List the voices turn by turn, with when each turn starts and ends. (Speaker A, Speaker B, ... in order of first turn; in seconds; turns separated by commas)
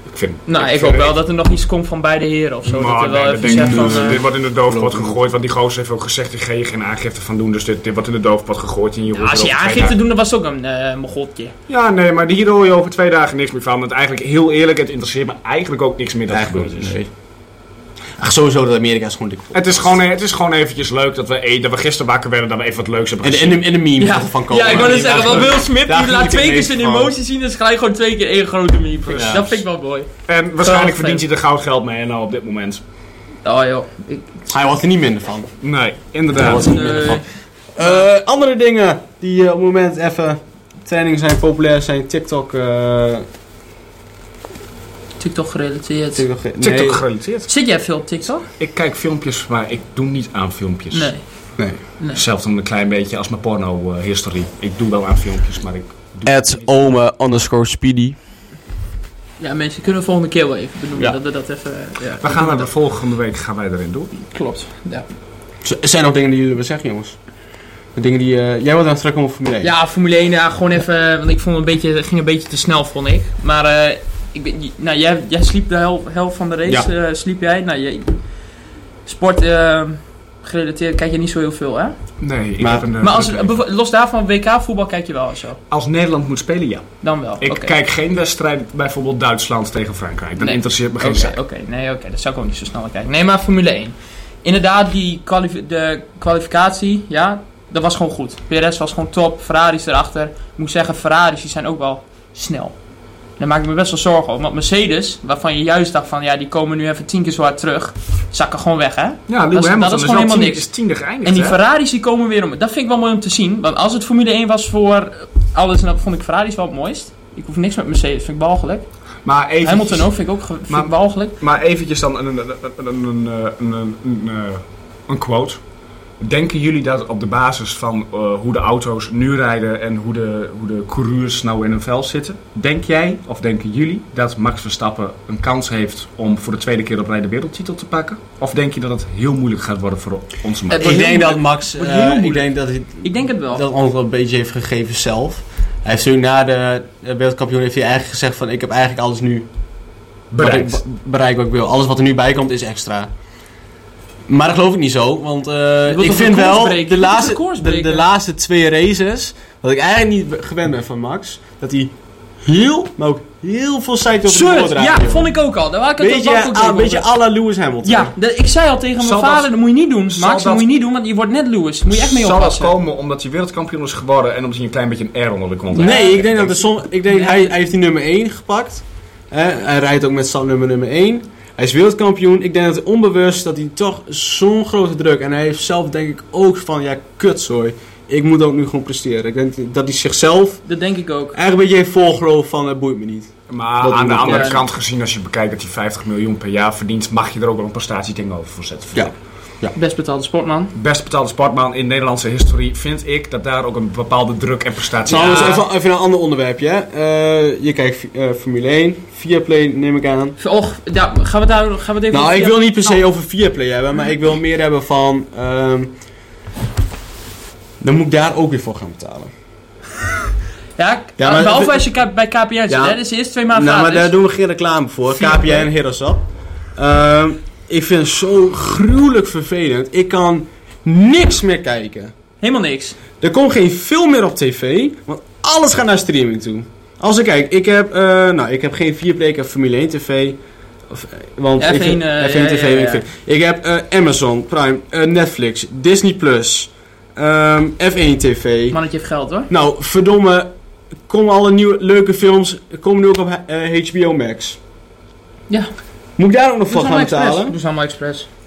Speaker A: 0.1-1.2, Speaker B: 0.5-4.2, Speaker A: 2.6-9.9, Speaker C: 3.4-5.2, Speaker B: 9.1-11.5, Speaker A: 11.7-16.9, Speaker C: 16.3-17.1, Speaker C: 18.2-19.9, Speaker A: 19.5-23.7, Speaker C: 23.2-27.1, Speaker B: 24.0-31.2, Speaker A: 24.7-25.5, Speaker A: 29.1-29.6, Speaker C: 29.1-29.5, Speaker A: 30.3-32.8, Speaker B: 33.4-34.4, Speaker C: 34.5-35.5, Speaker A: 35.6-36.6, Speaker C: 36.3-37.2, Speaker B: 36.4-37.2, Speaker C: 37.7-43.2, Speaker B: 45.2-46.2, Speaker C: 46.1-47.0, Speaker A: 46.6-47.5, Speaker B: 47.5-48.4, Speaker A: 48.6-51.1, Speaker B: 50.9-51.2, Speaker A: 52.1-56.6, Speaker C: 56.2-58.2, Speaker B: 59.4-62.7, Speaker A: 62.2-64.1, Speaker B: 64.2-65.0, Speaker C: 65.6-67.2, Speaker C: 67.9-69.7, Speaker B: 69.6-78.2, Speaker B: 79.0-82.0, Speaker A: 82.2-83.6, Speaker C: 82.6-82.9, Speaker B: 83.0-85.6, Speaker A: 85.7-91.3, Speaker B: 87.0-87.7, Speaker B: 90.4-102.8, Speaker B: 103.4-110.7, Speaker A: 109.3-111.6, Speaker B: 111.2-118.9, Speaker A: 119.2-120.1, Speaker B: 119.6-121.3, Speaker A: 120.7-125.6, Speaker A: 126.2-141.1, Speaker B: 140.7-142.4, Speaker C: 140.8-149.5, Speaker B: 143.0-143.6, Speaker A: 150.3-150.8, Speaker C: 150.4-153.1, Speaker C: 154.3-161.9, Speaker B: 155.9-158.0, Speaker C: 162.4-165.3, Speaker B: 164.3-167.1, Speaker C: 166.0-168.1, Speaker B: 167.8-172.7, Speaker A: 169.0-169.5, Speaker A: 170.1-170.7, Speaker A: 171.9-176.7, Speaker C: 175.7-190.6, Speaker B: 175.7-176.1, Speaker B: 177.1-177.5, Speaker B: 190.7-191.3, Speaker C: 191.3-194.6, Speaker A: 193.5-199.1, Speaker B: 194.2-194.6, Speaker C: 198.9-199.7, Speaker B: 199.8-200.7, Speaker A: 200.7-205.6, Speaker C: 205.1-210.3, Speaker B: 205.1-205.6, Speaker B: 210.4-213.0, Speaker C: 212.1-215.9, Speaker C: 217.8-219.3, Speaker B: 220.8-224.1, Speaker C: 221.2-221.9, Speaker C: 222.7-223.0, Speaker C: 223.5-226.2, Speaker B: 225.2-225.7, Speaker C: 226.8-232.1, Speaker B: 232.4-233.0, Speaker C: 233.2-248.8, Speaker B: 241.6-243.0, Speaker B: 248.7-249.5, Speaker C: 249.5-250.5, Speaker C: 251.1-254.6, Speaker C: 256.2-257.5, Speaker B: 256.7-258.3